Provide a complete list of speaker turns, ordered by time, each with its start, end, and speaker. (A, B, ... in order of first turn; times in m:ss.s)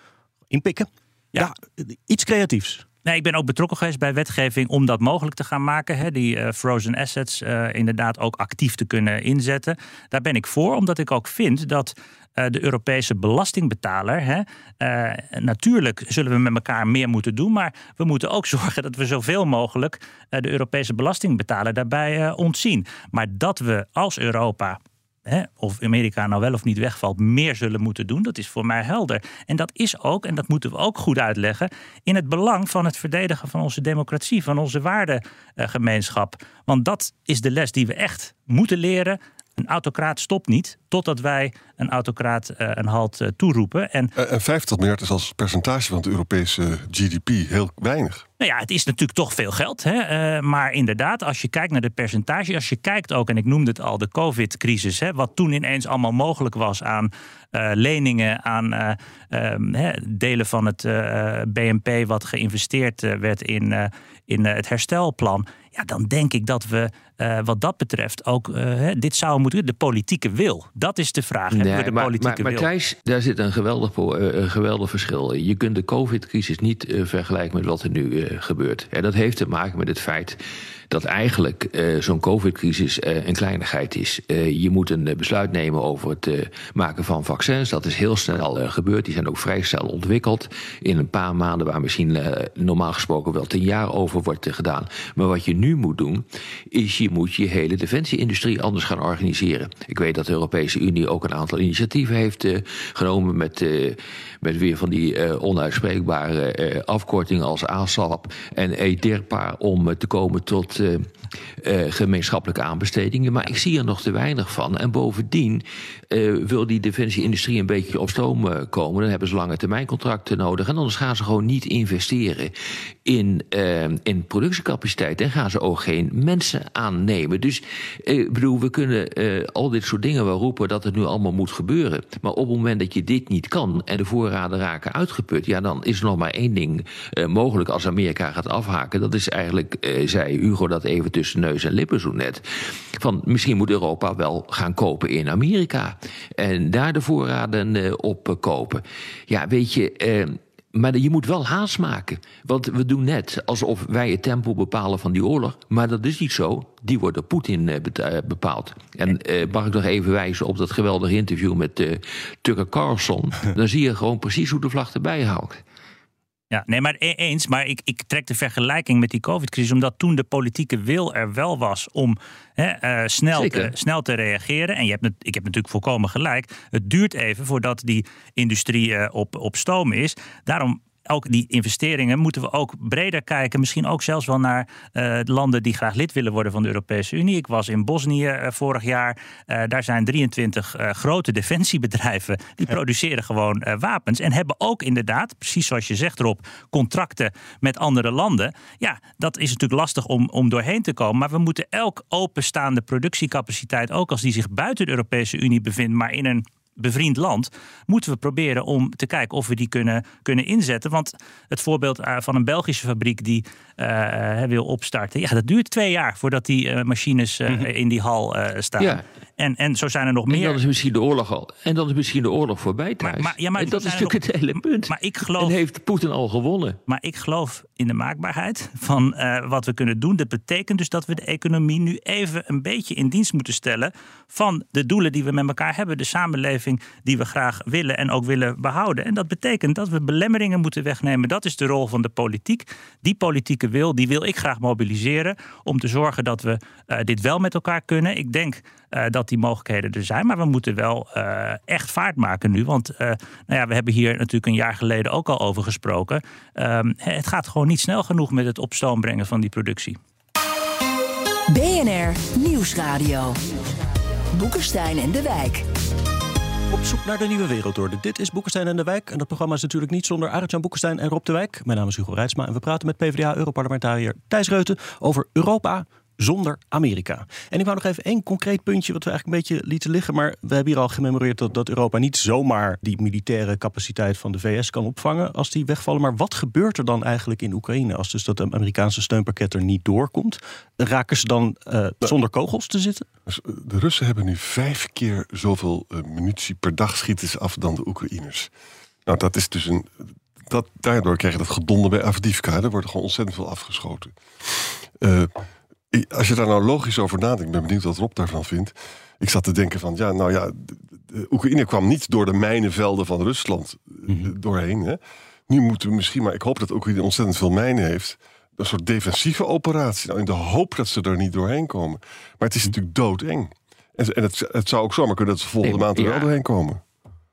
0:00.5-0:02.8 A
0:03.0-0:44.1 B
0:44.2-0:48.2 C
0:48.4-1:12.7 B
1:11.5-1:20.4 D
1:20.9-2:02.5 D
2:03.0-2:45.6 D
2:46.5-3:40.6 B
2:53.3-2:53.7 D
3:40.3-3:46.8 D
3:43.0-3:44.2 B
3:44.9-3:45.6 B
3:46.9-4:20.0 B
4:21.5-4:23.6 E
4:24.3-4:25.7 E
4:26.7-4:53.0 A
4:53.3-4:58.5 C
4:59.0-5:05.3 C
5:05.9-5:26.8 C
5:25.6-5:26.3 D